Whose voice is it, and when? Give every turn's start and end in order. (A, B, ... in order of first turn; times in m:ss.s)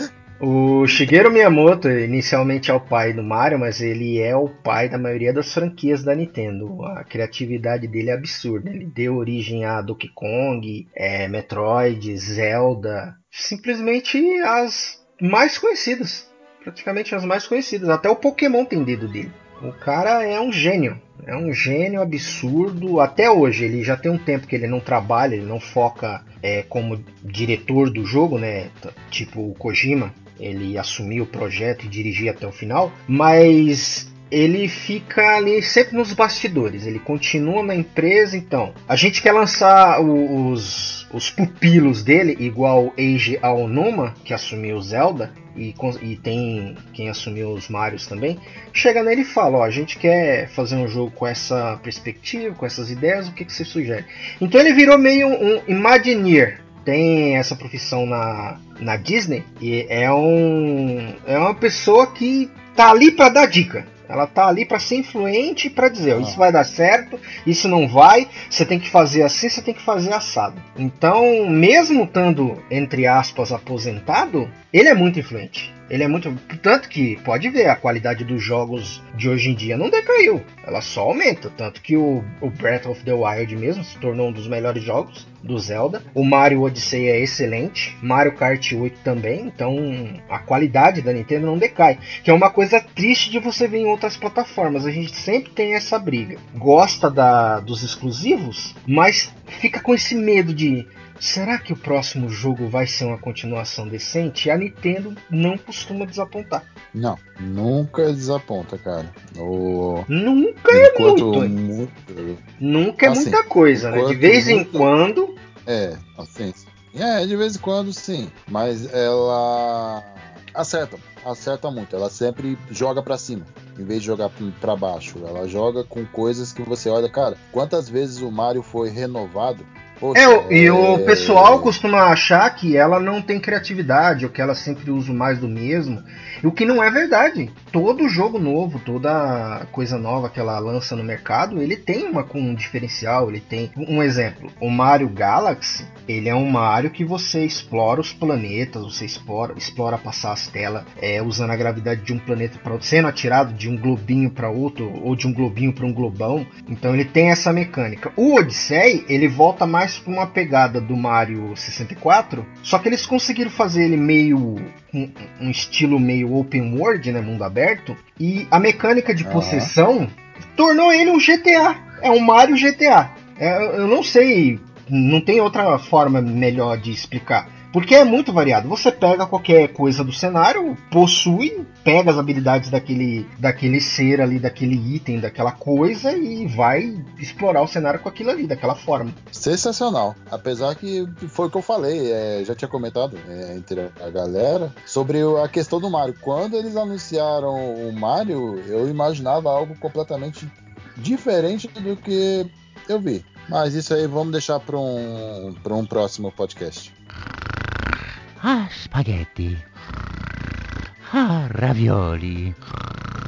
0:00.4-1:46.7 A
1:06.1-1:06.4 B
1:46.9-1:50.1 B
1:50.1-1:51.6 A
1:50.7-1:52.4 B
1:52.6-1:55.4 A
1:53.0-1:54.9 B
1:55.6-2:11.7 B
2:10.1-3:09.2 A
2:49.2-2:49.7 B
3:09.3-3:26.9 B
3:28.4-3:29.6 C
3:31.0-3:32.6 C